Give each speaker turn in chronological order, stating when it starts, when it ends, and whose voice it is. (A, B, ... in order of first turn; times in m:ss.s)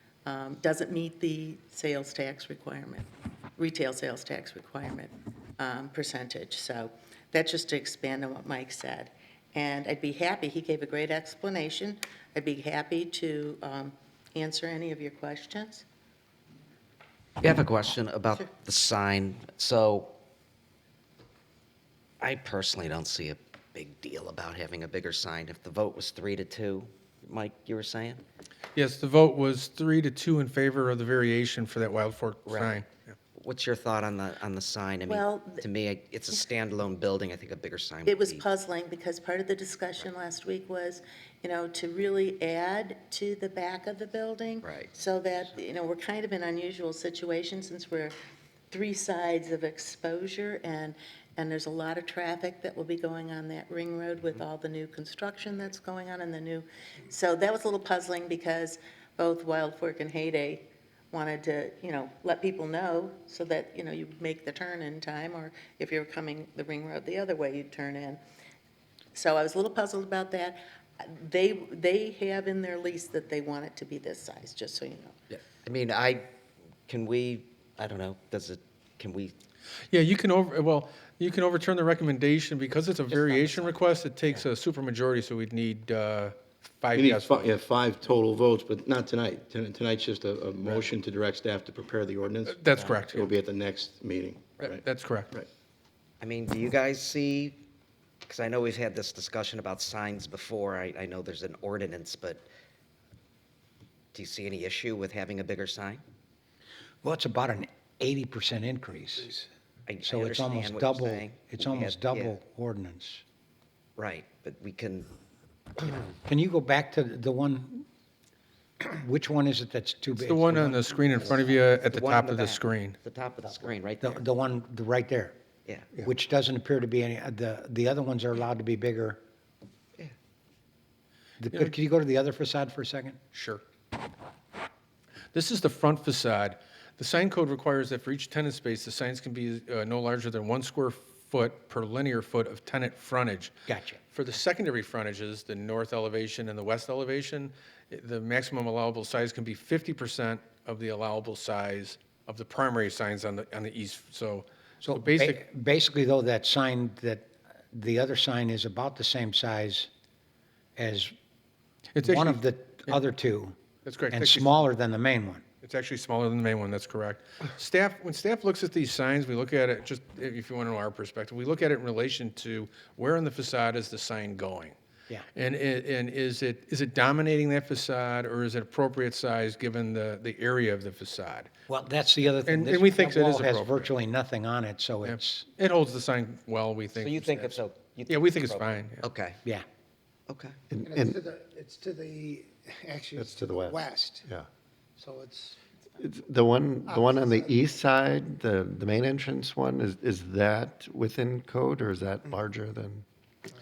0:00.3-0:15.8 A
0:17.4-0:20.2 B
0:22.2-0:28.2 B
0:28.8-0:33.1 C
0:32.5-0:38.4 B
0:35.1-0:35.6 A
0:38.1-0:48.1 A
0:44.6-0:44.9 B
0:48.7-1:08.2 A
1:09.1-1:15.2 A
1:15.6-1:16.3 B
1:16.9-1:19.4 B
1:19.9-1:27.5 C
1:23.1-1:23.8 B
1:27.0-1:35.5 D
1:32.5-1:33.2 C
1:32.8-1:33.3 B
1:34.6-1:35.3 C
1:36.2-1:37.6 B
1:38.3-1:42.4 B
1:44.1-1:46.0 B
1:47.0-1:49.3 E
1:49.9-1:52.4 B
1:50.0-1:53.2 E
1:54.0-1:55.1 B
1:56.2-1:57.9 E
1:58.8-2:01.0 E
2:00.2-2:03.0 C
2:01.2-2:04.2 B
2:04.0-2:05.4 E
2:06.0-2:09.2 E
2:11.4-2:13.2 E
2:13.3-2:13.6 C
2:15.3-2:23.5 C
2:23.7-2:24.0 E
2:24.1-2:35.4 C
2:34.8-2:39.9 E
2:40.8-2:41.1 E
2:41.9-2:43.0 C
2:42.0-2:43.6 E
2:43.8-2:44.6 C
2:44.1-2:45.4 E
2:45.6-2:54.8 C
2:55.4-3:01.5 C
3:01.7-3:05.4 E
3:02.5-3:03.9 C
3:05.0-3:09.0 C
3:06.9-3:09.4 B
3:10.3-3:10.6 B
3:10.7-3:11.2 F
3:10.8-3:14.2 G
3:13.2-3:14.5 F
3:15.0-3:15.6 G
3:16.0-3:23.0 F
3:16.9-3:17.5 G